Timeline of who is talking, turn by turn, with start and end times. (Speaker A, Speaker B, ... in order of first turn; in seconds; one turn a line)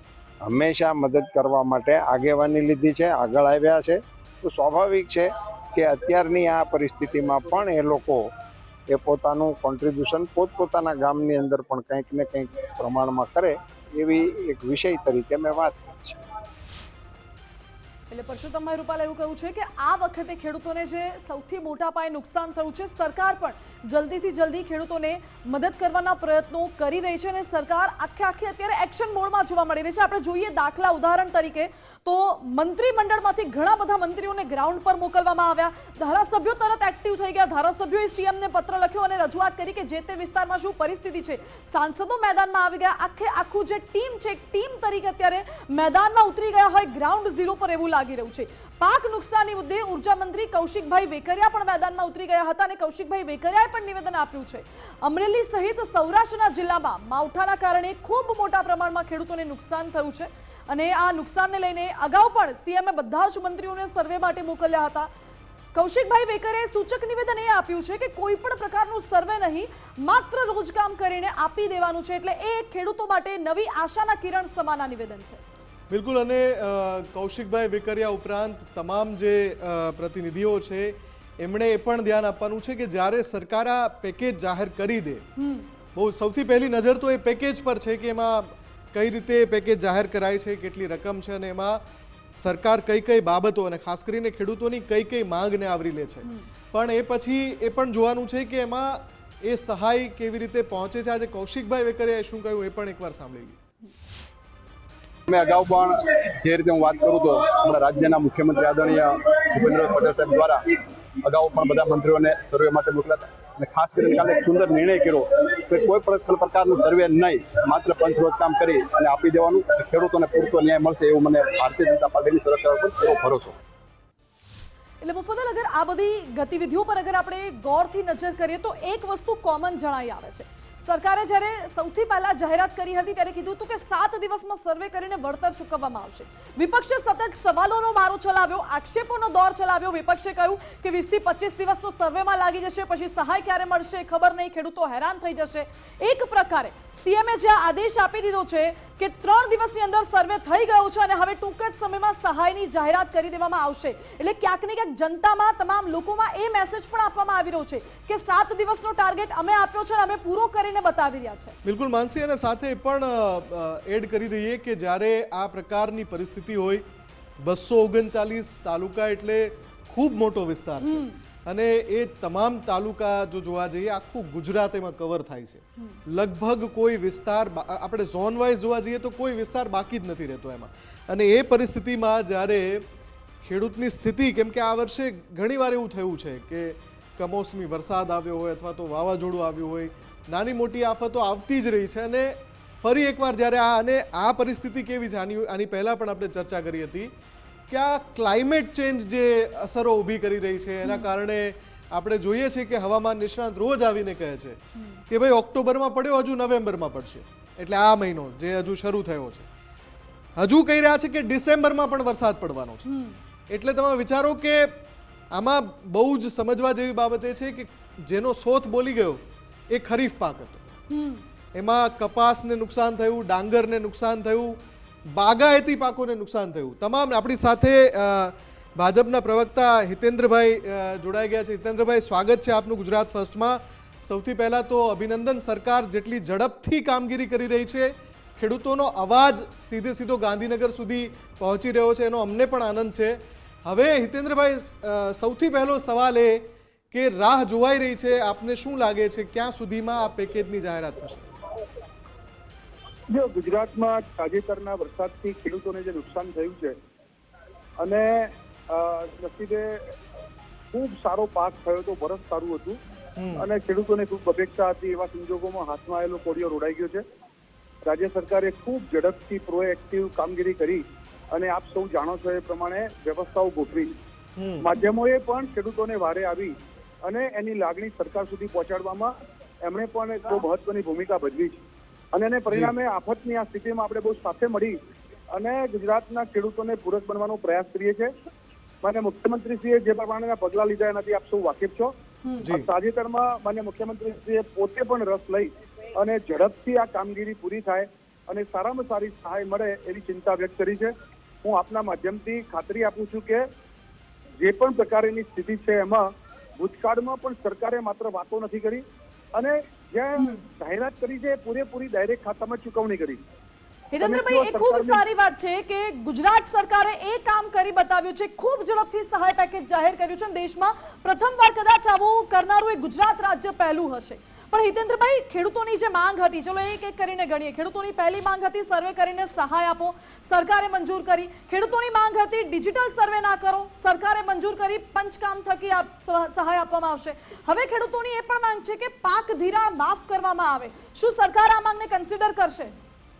Speaker A: 0.4-8.3
Speaker A: 8.9-16.2
Speaker B: 18.1-65.1
Speaker B: 65.7-75.4
Speaker C: 75.9-85.2
Speaker B: 85.4-85.7
Speaker C: 85.9-91.8
Speaker C: 92.3-103.6
Speaker D: 105.3-110.6
Speaker D: 111.2-123.6
Speaker B: 125.0-161.6
Speaker C: 161.6-166.8
Speaker C: 167.4-182.8
Speaker B: 170.8-171.2
Speaker C: 183.4-197.1
Speaker C: 197.7-209.5
Speaker B: 200.8-201.1
Speaker B: 204.8-205.0
Speaker C: 210.4-212.8
Speaker B: 212.8-213.2
Speaker C: 213.5-214.8
Speaker C: 215.3-219.2
Speaker C: 219.7-220.6
Speaker B: 220.9-221.2
Speaker C: 221.5-251.2
Speaker E: 253.1-256.8
Speaker E: 257.8-259.9
Speaker E: 260.7-262.8
Speaker C: 263.2-263.4
Speaker E: 263.4-267.0
Speaker E: 267.8-274.0
Speaker C: 274.4-274.6
Speaker E: 274.6-276.5
Speaker E: 277.0-279.1
Speaker E: 279.6-281.6
Speaker E: 282.1-284.8
Speaker E: 285.3-288.1
Speaker E: 288.8-291.9
Speaker E: 292.4-303.5
Speaker E: 304.4-313.2
Speaker B: 310.2-310.4
Speaker B: 313.9-342.7
Speaker E: 314.0-315.0